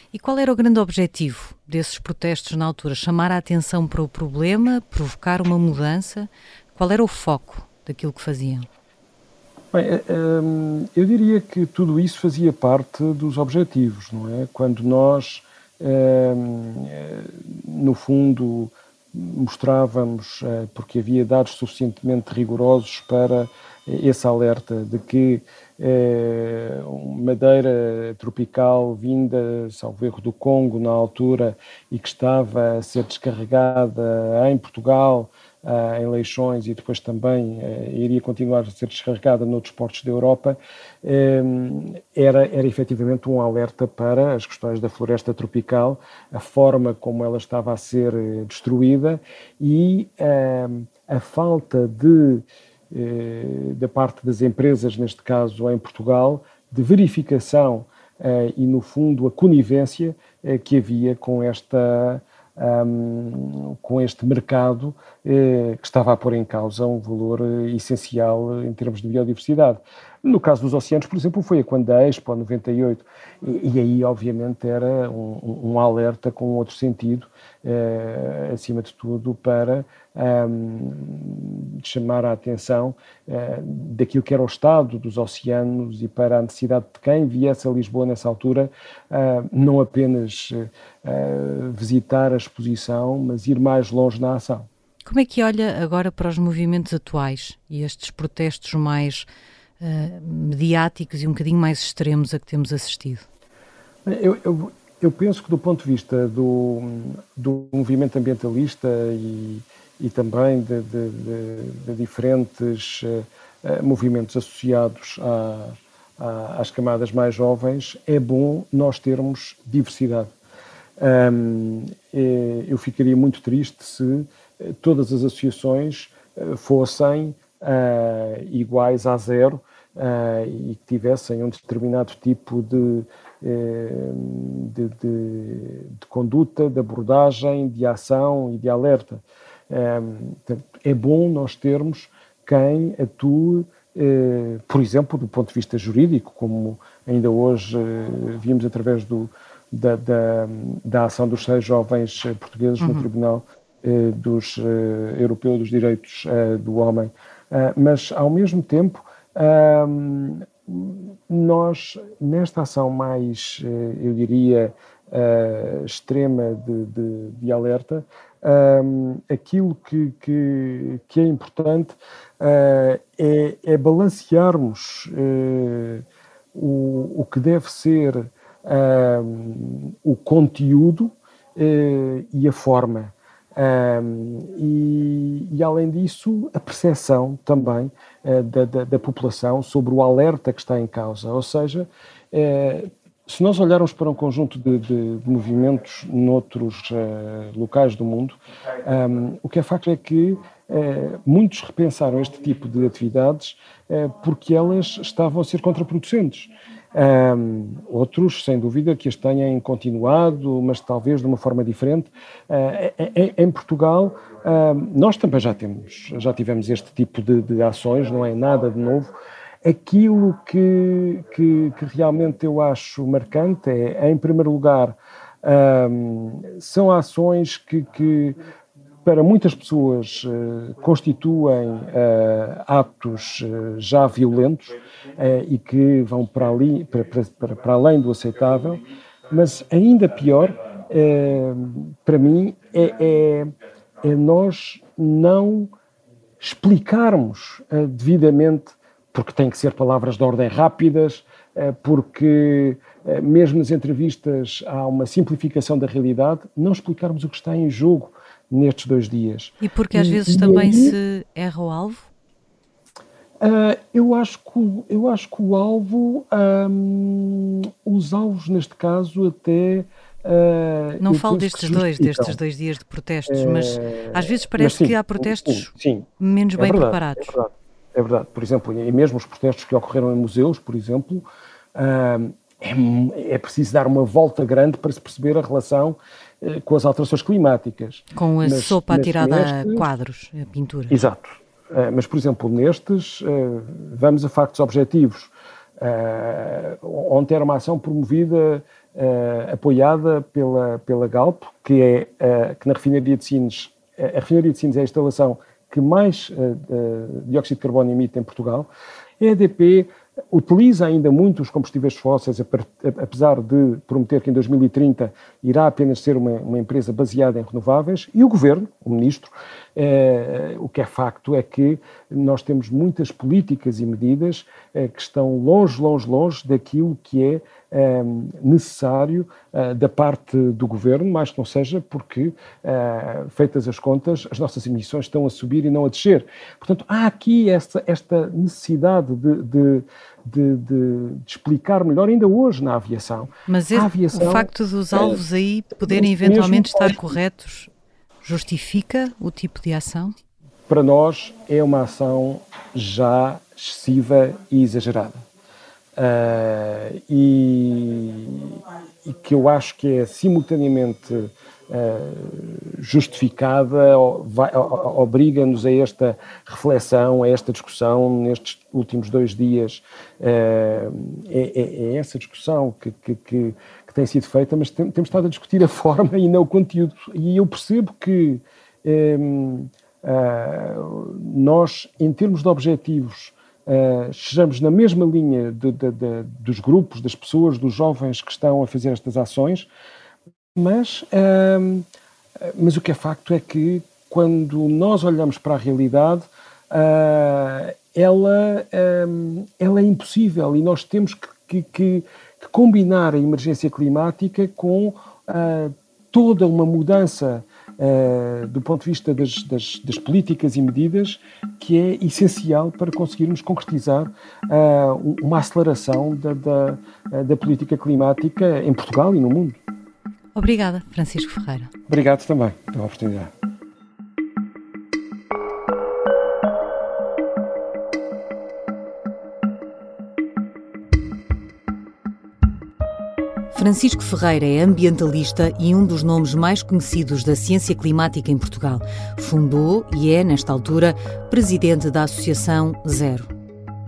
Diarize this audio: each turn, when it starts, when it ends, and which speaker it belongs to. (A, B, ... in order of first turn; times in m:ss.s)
0:00.1-0:08.7 A
0:09.7-1:34.7 B
1:35.1-1:39.3 A
1:39.8-1:43.3 A
1:44.0-2:00.3 B
2:01.0-3:48.4 B
2:32.8-2:33.1 A
3:49.0-4:03.5 B
4:04.0-4:05.7 B
4:06.4-4:21.0 B
4:19.6-4:22.1 A
4:23.4-4:32.4 B
4:31.0-4:37.4 A
4:33.3-4:49.9 B
4:48.2-4:51.1 A
4:50.9-5:08.7 B
5:09.2-5:45.2 B
5:43.5-5:47.7 A
5:45.8-5:47.0 B
5:48.2-5:50.2 A
5:50.7-5:55.2 B
5:56.0-6:29.7 B
6:30.6-6:31.9 B
6:32.4-6:59.6 B
7:00.3-7:01.7 A
7:01.9-7:03.3 B
7:13.5-7:23.3 A